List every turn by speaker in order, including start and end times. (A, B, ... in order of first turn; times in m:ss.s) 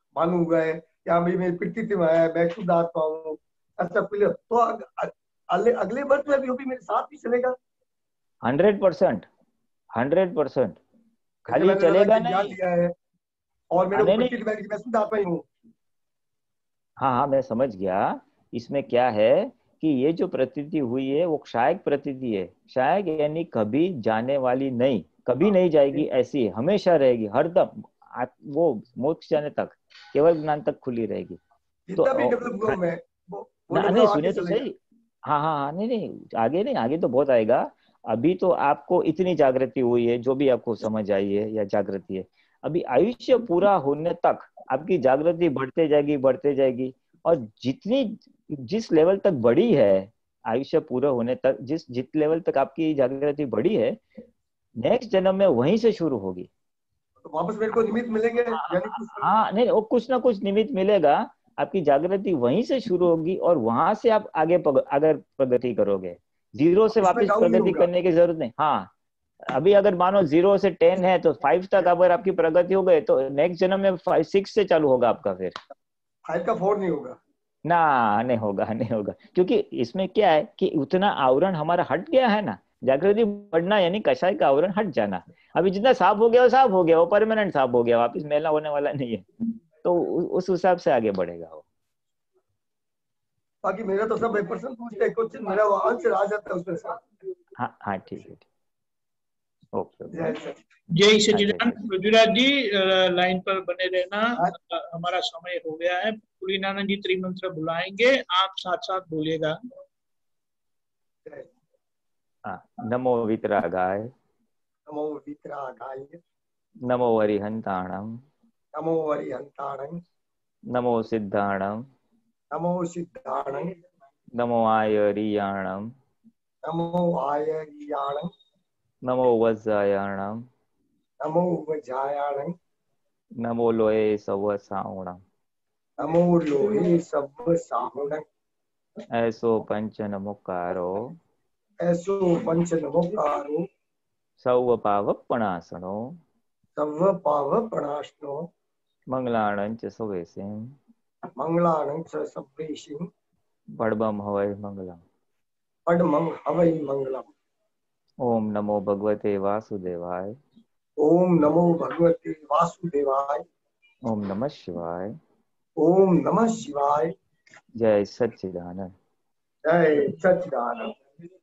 0:00.2-0:07.6 A
0:08.4-0:09.3 B
0:09.9-0:10.8 B
0:11.5-0:12.6 B
0:11.5-0:13.0 A
0:13.7-0:15.5 A
0:13.9-0:14.4 B
0:17.0-0:31.4 B
0:31.9-0:34.7 A
0:32.0-0:32.8 B
0:33.7-0:54.0 B
0:54.8-0:56.5 B
0:57.2-0:59.3 A
0:58.6-1:08.9 B
1:06.9-1:07.9 A
1:09.4-1:15.6 B
1:16.3-1:17.2 A
1:17.6-1:29.2 B
1:29.8-1:31.6 B
1:33.6-1:37.1 A
1:37.6-1:38.5 B
1:39.7-1:40.4 B
1:40.1-1:40.6 A
1:41.0-1:49.6 C
1:41.3-1:41.8 B
1:51.3-1:51.5 A
1:52.4-1:54.1 B
1:54.9-1:56.2 A
1:56.8-1:58.2 B
1:58.7-2:00.0 A
2:00.7-2:01.9 B
2:02.5-2:03.8 A
2:04.3-2:05.9 B
2:06.6-2:08.3 A
2:09.0-2:10.5 B
2:11.2-2:12.6 A
2:13.4-2:15.2 B
2:16.0-2:18.3 A
2:19.1-2:21.2 B
2:21.8-2:23.7 A
2:24.4-2:26.2 B
2:26.8-2:28.5 A
2:29.1-2:30.8 B
2:31.4-2:33.1 A
2:33.8-2:35.0 B
2:35.9-2:37.3 A
2:38.2-2:40.4 B
2:41.0-2:43.5 A
2:44.0-2:45.2 B
2:45.8-2:47.1 A
2:47.8-2:48.9 B
2:49.6-2:51.0 A